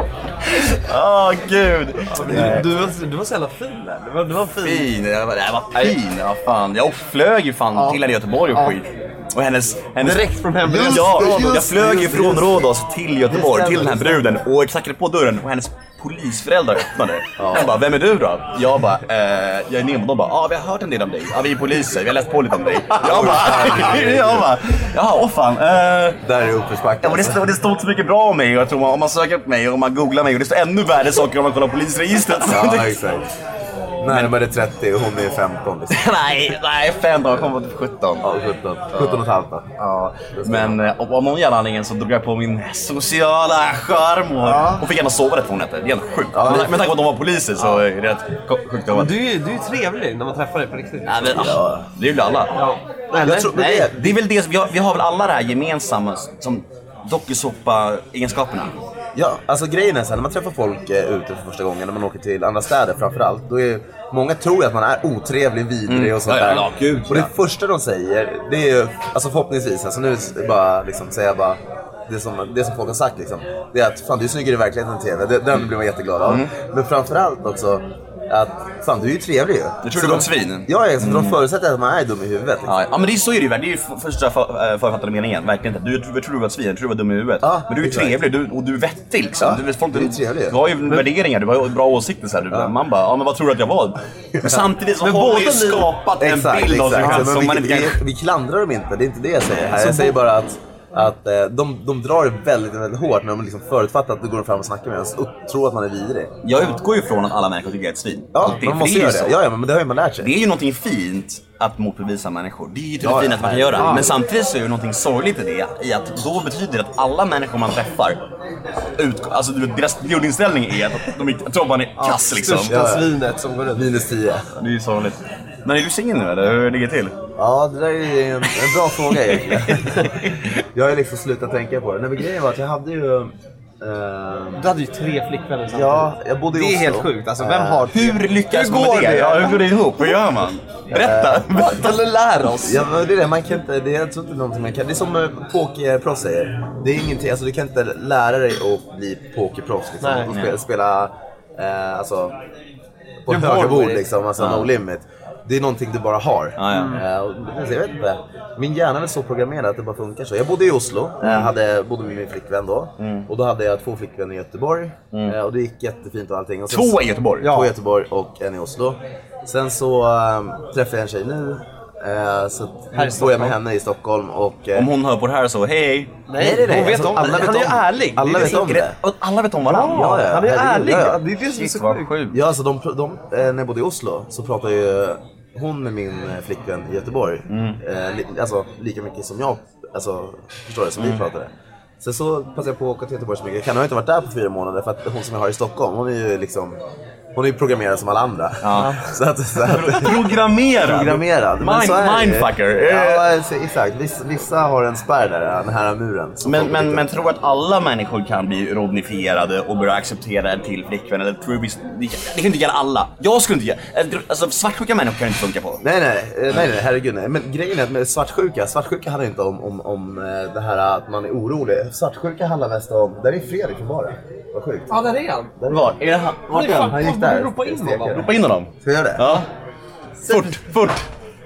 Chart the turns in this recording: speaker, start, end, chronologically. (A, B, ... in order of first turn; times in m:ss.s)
0:00.4-0:02.8 A
0:02.1-0:04.9 B
0:02.3-0:02.6 C
0:04.6-0:26.2 A
0:07.7-0:08.0 B
0:08.5-0:08.8 B
0:10.0-0:11.4 B
0:10.6-0:12.7 C
0:13.3-0:14.3 C
0:17.4-0:17.8 C
0:23.0-0:24.6 C
0:26.2-0:27.5 C
0:27.0-0:33.0 A
0:32.4-0:33.2 C
0:34.0-0:36.0 C
0:34.0-0:34.3 A
0:35.9-0:38.2 A
0:38.2-0:39.7 C
0:38.9-0:39.2 A
0:39.8-0:49.2 A
0:40.4-0:40.8 C
0:44.4-0:44.8 B
0:46.3-0:46.9 C
0:48.9-0:51.5 B
0:51.0-0:52.5 A
0:51.3-0:51.9 C
0:52.5-0:53.9 B
0:53.2-0:54.2 C
0:53.7-0:58.7 A
0:59.1-1:22.7 C
1:05.9-1:07.3 A
1:19.8-1:21.4 A
1:22.6-1:38.0 A
1:27.4-1:28.2 C
1:29.4-1:30.6 C
1:34.4-1:34.7 C
1:35.0-1:36.2 B
1:36.2-1:46.3 C
1:36.9-1:37.3 B
1:39.8-1:40.2 B
1:46.4-1:49.4 A
1:48.3-1:50.3 C
1:50.2-1:58.2 A
1:53.0-1:54.2 C
1:53.8-1:54.1 B
1:59.0-2:02.7 A
2:02.0-2:04.0 B
2:02.7-2:03.2 C
2:03.7-2:04.5 C
2:04.6-2:07.2 A
2:07.4-2:14.6 C
2:09.4-2:10.3 A
2:14.6-2:20.1 B
2:15.7-2:17.9 C
2:17.9-2:22.0 A
2:20.9-2:21.5 C
2:21.4-2:22.8 B
2:22.6-2:32.4 C
2:30.0-2:30.3 B
2:30.3-2:30.6 A
2:33.2-2:54.9 C
2:33.3-2:34.1 B
2:34.4-2:34.7 A
2:36.6-2:37.0 A
2:36.7-2:37.0 B
2:41.2-2:41.5 A
2:43.0-2:43.3 A
2:46.7-2:47.5 A
2:47.4-2:47.7 B
2:52.9-2:53.6 B
2:54.7-2:56.2 A
2:56.3-2:58.7 B
2:56.4-2:59.0 C
2:58.2-3:00.2 A
2:59.6-3:02.1 B
2:59.9-3:01.2 C
3:01.5-3:02.4 A
3:02.3-3:16.8 C
3:07.5-3:07.8 A
3:17.3-3:27.3 C
3:18.6-3:19.0 A
3:18.7-3:19.0 B
3:19.6-3:23.2 A
3:26.4-3:35.8 A
3:35.8-3:44.9 C
3:44.9-3:45.5 B
3:45.6-3:46.0 C
3:45.7-3:47.0 A
3:46.5-3:48.3 B
3:46.6-3:49.3 C
3:48.1-3:49.5 A
3:50.2-3:51.0 A
3:50.2-3:50.6 B